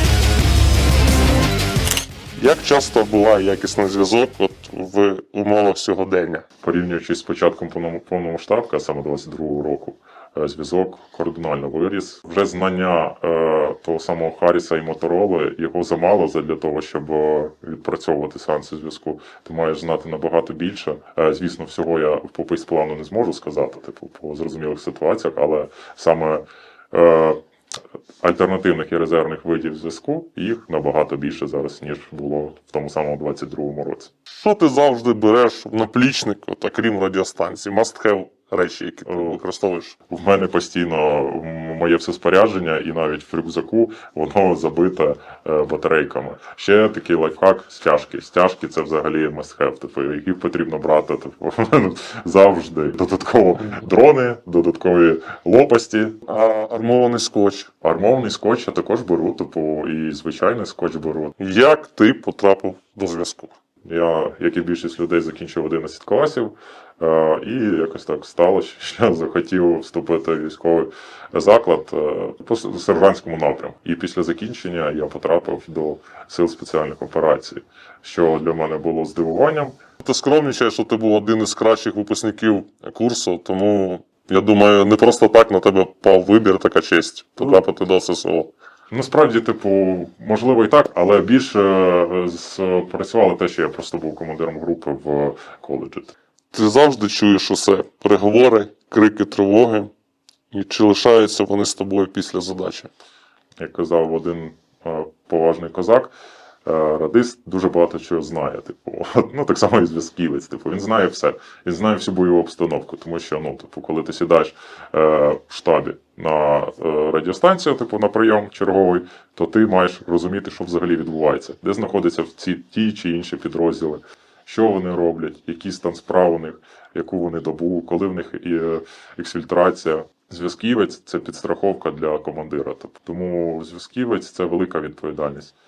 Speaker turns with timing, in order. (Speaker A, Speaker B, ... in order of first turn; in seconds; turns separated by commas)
Speaker A: 2.4-6.4, Speaker B: 6.6-27.4, Speaker B: 28.2-34.1, Speaker A: 34.3-40.0, Speaker B: 39.1-39.4, Speaker B: 40.1-56.2, Speaker A: 56.3-57.7, Speaker B: 57.8-61.3, Speaker A: 61.4-63.5, Speaker B: 63.8-79.8, Speaker A: 80.0-88.5, Speaker B: 88.9-96.1, Speaker A: 96.5-99.9, Speaker A: 100.5-102.9, Speaker B: 103.6-106.1, Speaker B: 106.6-135.5